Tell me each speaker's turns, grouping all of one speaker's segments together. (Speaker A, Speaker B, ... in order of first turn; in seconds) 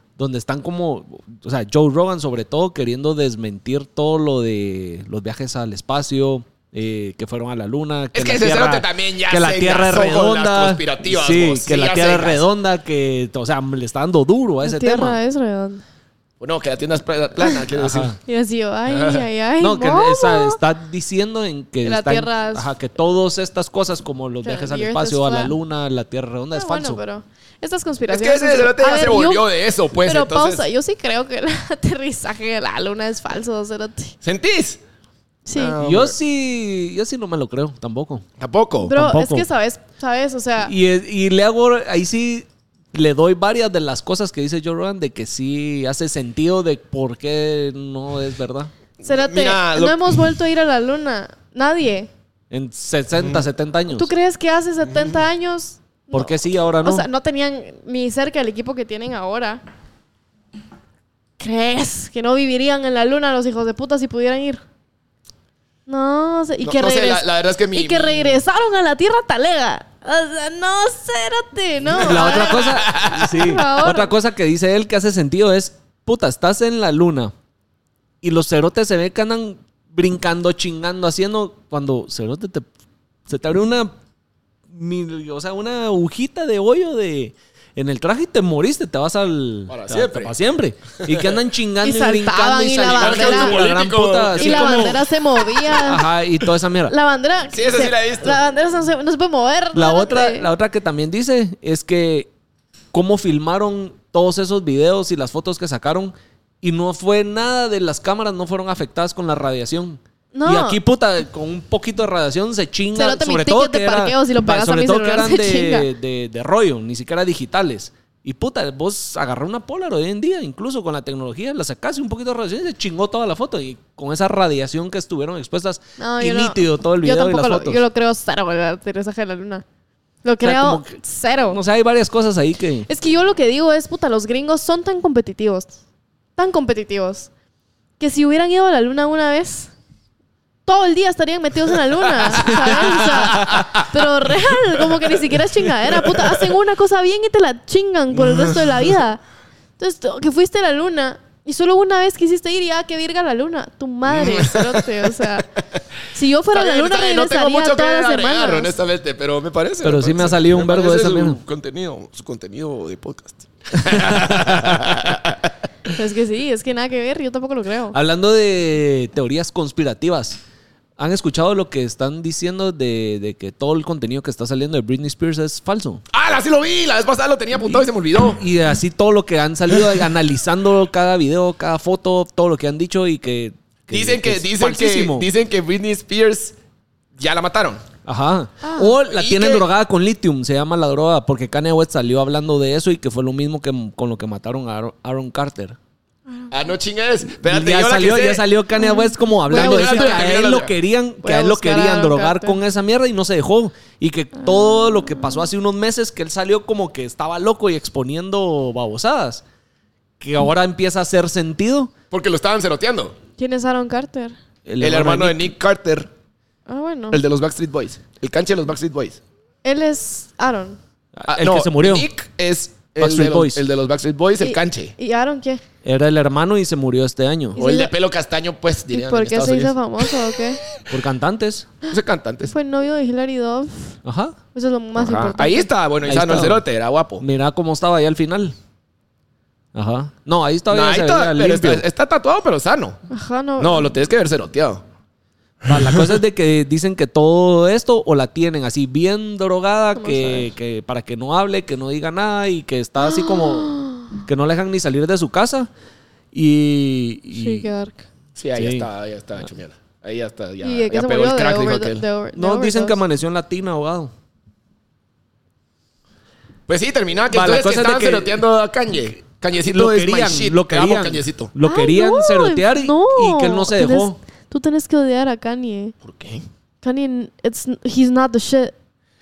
Speaker A: 0.2-15.2, 17.7-18.2, 19.6-27.0, 35.8-38.2, 38.9-39.5, 40.6-48.7, 52.5-54.1, 56.1-57.1, 72.0-77.3, 78.2-82.7, 83.3-83.9, 84.7-95.1, 95.8-96.9, 99.7-102.3, 102.9-127.8, 130.4-130.9, 131.5-132.9, 142.3-143.8, 159.8-161.4, 163.8-164.9, 167.9-170.4, 171.0-176.0, 178.4-185.3, 188.1-195.8, 197.4-209.4, 210.2-211.9, 214.7-215.5, 221.2-222.1, 223.0-223.6, 225.8-227.6, 230.9-231.7, 234.1-234.4, 236.1-236.6, 237.2-238.6, 239.7-241.8, 245.7-255.7, 256.3-257.7, 258.6-258.9, 262.3-264.1, 267.3-268.4, 269.6-274.2
Speaker B: 8.1-12.4, 16.4-18.1, 18.9-19.2, 28.1-30.7, 34.2-34.8, 35.5-36.2, 38.4-38.9, 49.0-50.3, 54.9-55.2, 66.6-68.4, 71.9-73.2, 89.7-90.3, 91.0-91.3, 92.9-95.0, 97.5-98.4, 142.4-142.7, 143.3-143.9, 145.9-146.4, 154.1-155.2, 156.5-165.9, 176.1-178.4, 183.9-186.6, 187.2-187.8, 189.1-189.7, 196.5-198.4, 199.5-200.7, 212.1-213.2, 214.8-216.1, 217.1-219.2, 221.3-224.9, 227.6-229.8, 231.9-232.5, 235.0-237.2, 240.7-243.0, 243.6-244.8, 245.6-246.2, 258.4-262.1, 266.7-271.5, 276.0-276.4
Speaker C: 14.6-15.8, 18.3-20.6, 21.8-22.7, 24.4-25.5, 26.5-29.5, 30.1-34.1, 35.5-35.8, 38.9-40.7, 49.0-52.1, 53.9-59.6, 61.4-64.6, 65.9-74.1, 91.8-93.6, 94.3-96.1, 96.9-100.5, 110.3-110.8, 112.9-115.9, 126.0-129.6, 130.2-131.6, 132.9-135.8, 136.4-137.3, 138.0-139.7, 140.7-149.2, 149.8-155.5, 156.1-158.8, 165.9-167.9, 188.6-188.9, 198.8-200.3, 201.2-202.6, 213.4-214.4, 216.7-217.2, 219.6-220.8, 224.4-225.6, 227.6-227.9, 228.9-230.6, 232.5-234.0, 234.6-235.7, 243.1-243.9, 249.9-250.5, 253.0-254.2, 257.3-258.1, 260.6-263.0, 271.6-275.9, 276.8-278.7